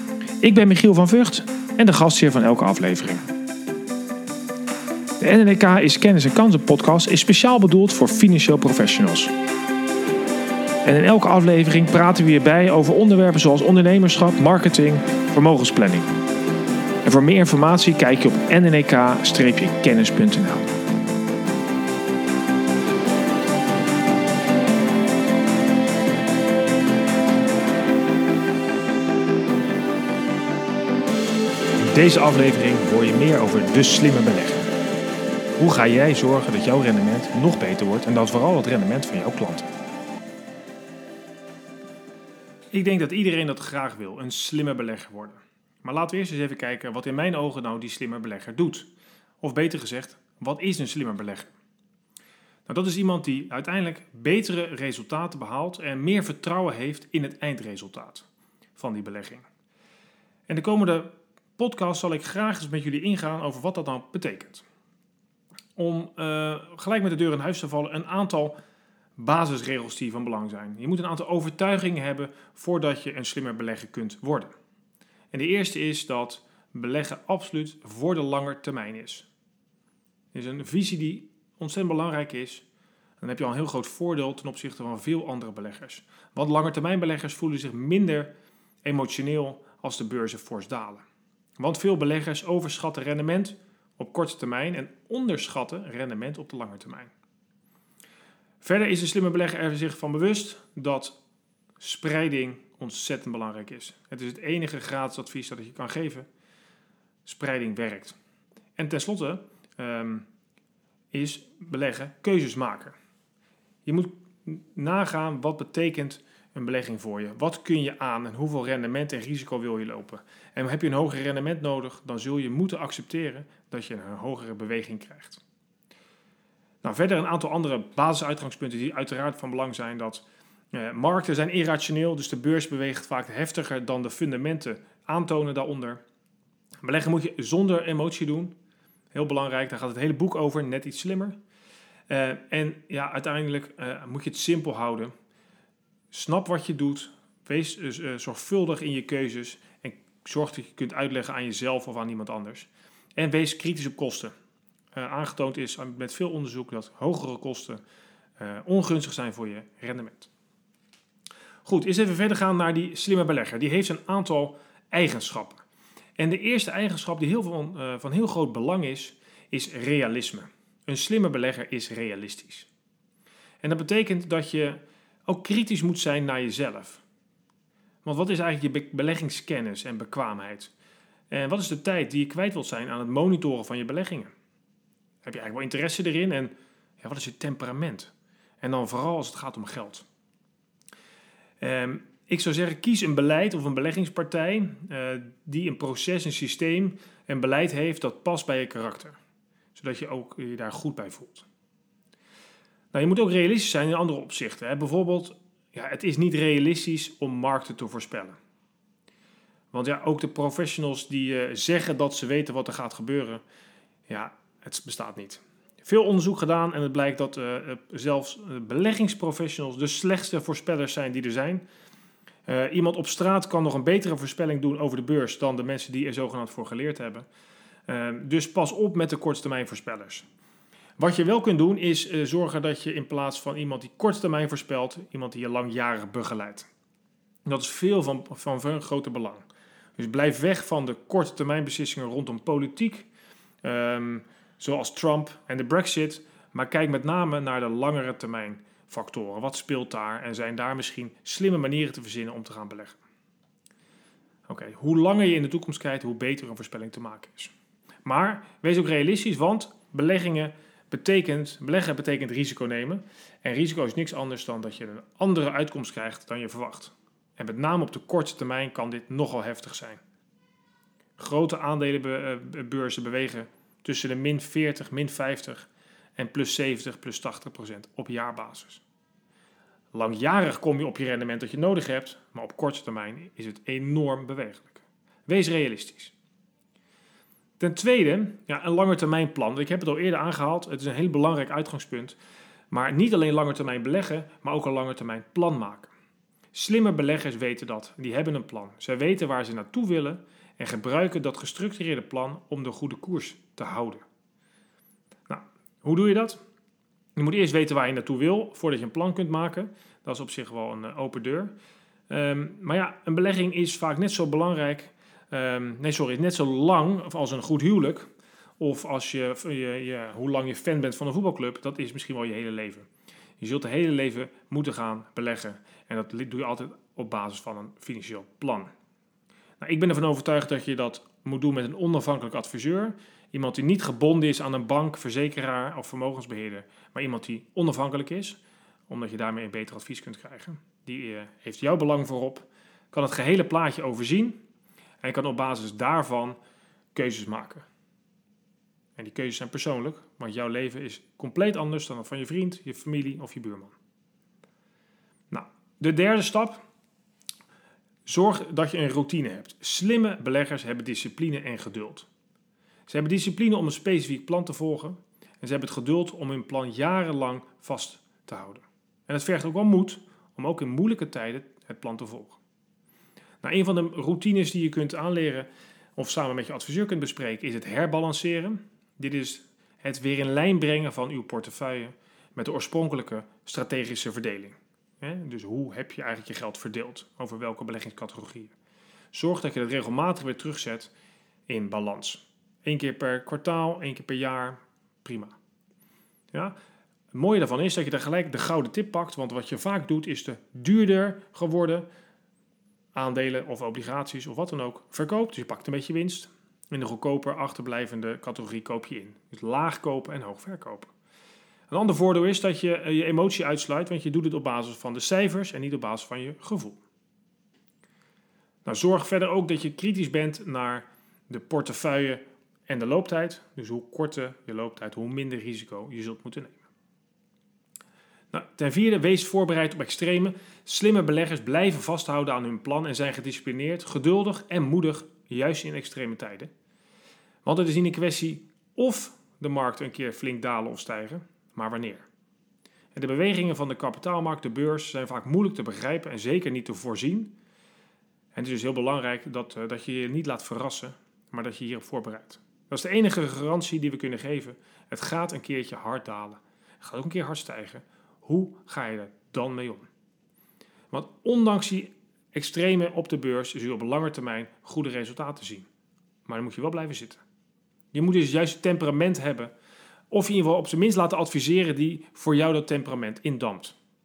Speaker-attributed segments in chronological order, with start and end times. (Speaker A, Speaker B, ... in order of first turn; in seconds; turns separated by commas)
Speaker A: 0.4-3.2, Speaker A: 5.2-9.3, Speaker A: 10.8-16.1, Speaker A: 17.0-20.7, Speaker A: 31.8-34.7, Speaker A: 35.6-39.7, Speaker A: 42.7-48.9, Speaker A: 49.4-51.5, Speaker A: 52.7-59.5, Speaker A: 60.5-64.6, Speaker A: 65.8-68.5, Speaker A: 69.2-74.5, Speaker A: 75.3-79.3, Speaker A: 80.3-82.6, Speaker A: 83.2-88.3, Speaker A: 88.8-91.0, Speaker A: 91.6-97.1, Speaker A: 98.6-101.2, Speaker A: 101.8-106.3, Speaker A: 107.2-108.2, Speaker A: 108.8-110.3, Speaker A: 111.1-113.0, Speaker A: 113.8-125.4, Speaker A: 126.8-136.0, Speaker A: 136.8-138.5, Speaker A: 139.1-141.4, Speaker A: 142.1-145.1, Speaker A: 146.1-154.3, Speaker A: 154.9-157.8, Speaker A: 158.4-160.3, Speaker A: 161.6-165.6, Speaker A: 166.2-172.7, Speaker A: 173.6-177.0, Speaker A: 178.0-180.7, Speaker A: 181.3-184.3, Speaker A: 185.2-190.1, Speaker A: 191.6-199.2, Speaker A: 199.7-201.5, Speaker A: 202.9-208.4, Speaker A: 209.7-213.4, Speaker A: 214.1-221.6, Speaker A: 222.5-227.3, Speaker A: 227.9-230.3, Speaker A: 231.0-236.7, Speaker A: 237.4-239.4, Speaker A: 240.0-243.1, Speaker A: 243.6-253.0, Speaker A: 254.5-257.5, Speaker A: 258.0-270.0, Speaker A: 271.2-278.8, Speaker A: 279.9-286.1, Speaker A: 287.6-292.2, Speaker A: 292.7-295.9, Speaker A: 296.5-304.0, Speaker A: 305.3-306.4, Speaker A: 307.1-311.5, Speaker A: 312.1-322.9, Speaker A: 323.4-328.7, Speaker A: 329.6-344.4, Speaker A: 345.0-346.4, Speaker A: 346.9-347.7, Speaker A: 348.9-353.8, Speaker A: 355.3-356.6, Speaker A: 358.1-362.1, Speaker A: 362.9-372.4, Speaker A: 373.4-388.5, Speaker A: 389.1-390.9, Speaker A: 391.5-395.4, Speaker A: 397.1-401.9, Speaker A: 402.9-410.9, Speaker A: 411.7-416.8, Speaker A: 418.6-426.7, Speaker A: 428.3-436.5, Speaker A: 437.4-442.1, Speaker A: 442.9-447.3, Speaker A: 448.3-459.9, Speaker A: 460.9-465.7, Speaker A: 466.2-467.2, Speaker A: 467.9-469.5, Speaker A: 470.1-473.8